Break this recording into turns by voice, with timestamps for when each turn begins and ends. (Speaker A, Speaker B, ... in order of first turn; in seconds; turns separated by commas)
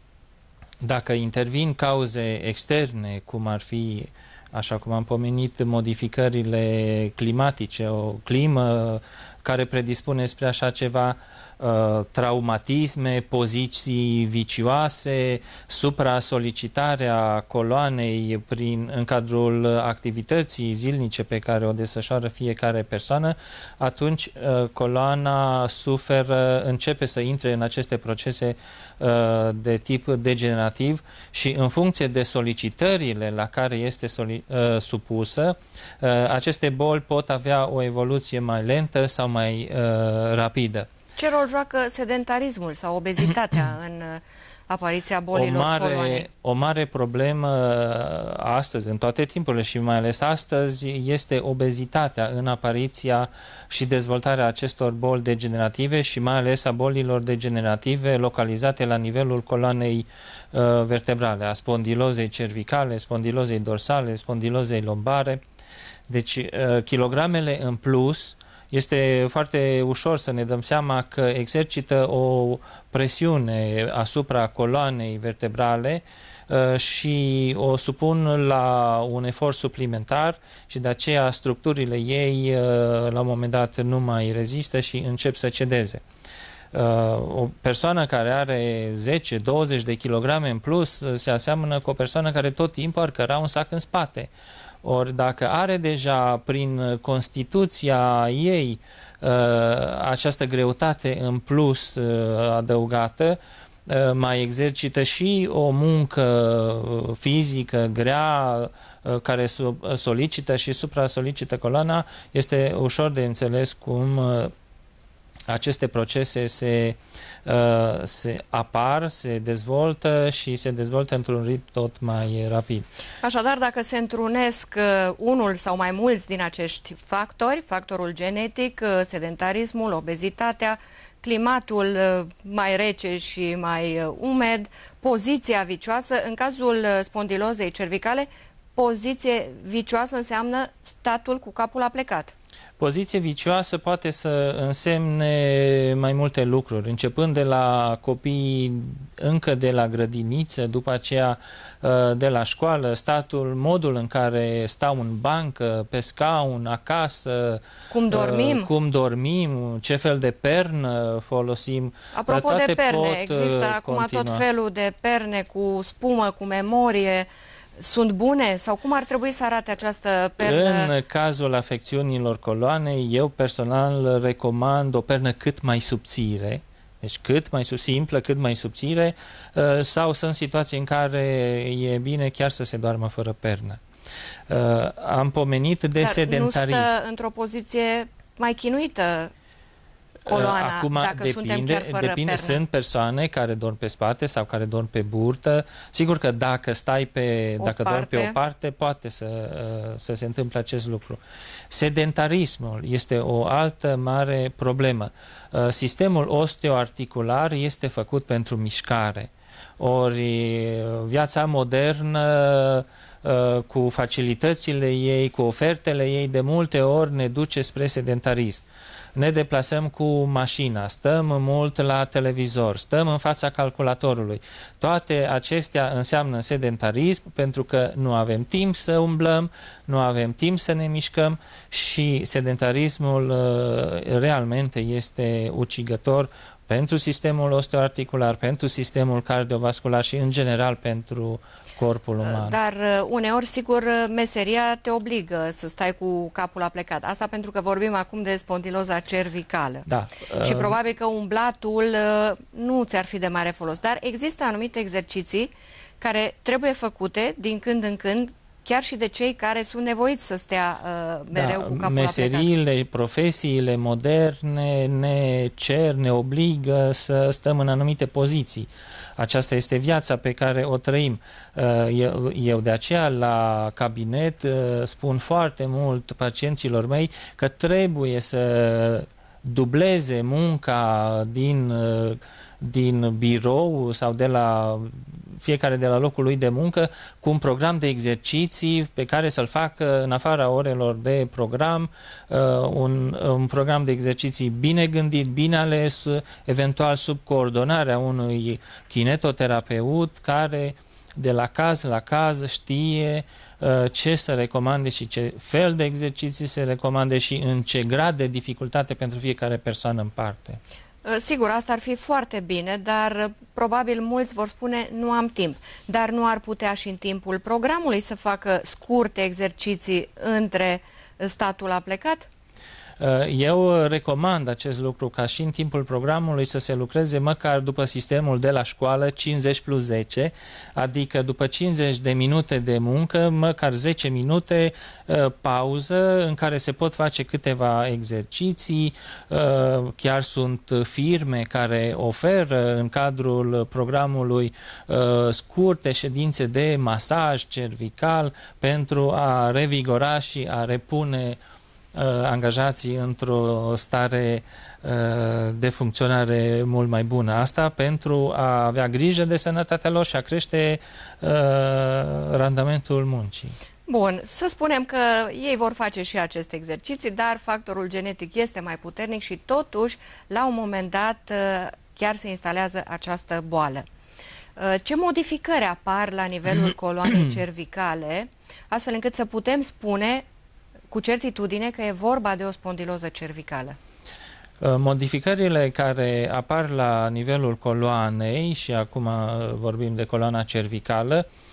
Speaker A: 0.8-40.9, Speaker B: 41.1-46.2, Speaker A: 45.3-65.4, Speaker A: 66.1-86.0, Speaker A: 86.7-94.3, Speaker A: 94.8-114.5, Speaker A: 115.5-122.8, Speaker B: 123.2-142.3, Speaker A: 142.8-164.4, Speaker B: 157.9-158.7, Speaker B: 162.1-170.9, Speaker A: 170.4-183.8, Speaker A: 184.5-186.9, Speaker B: 186.0-189.3, Speaker B: 190.3-192.6, Speaker A: 190.3-201.2, Speaker B: 197.6-198.3, Speaker A: 201.7-218.6, Speaker A: 219.1-242.6, Speaker B: 242.2-249.8, Speaker A: 249.8-250.8, Speaker B: 250.4-262.5, Speaker A: 261.3-310.6, Speaker B: 311.0-322.3, Speaker A: 323.0-351.4, Speaker A: 351.9-363.5, Speaker B: 363.9-373.9, Speaker B: 374.6-380.2, Speaker A: 376.6-377.4, Speaker B: 380.9-383.8, Speaker A: 384.6-391.3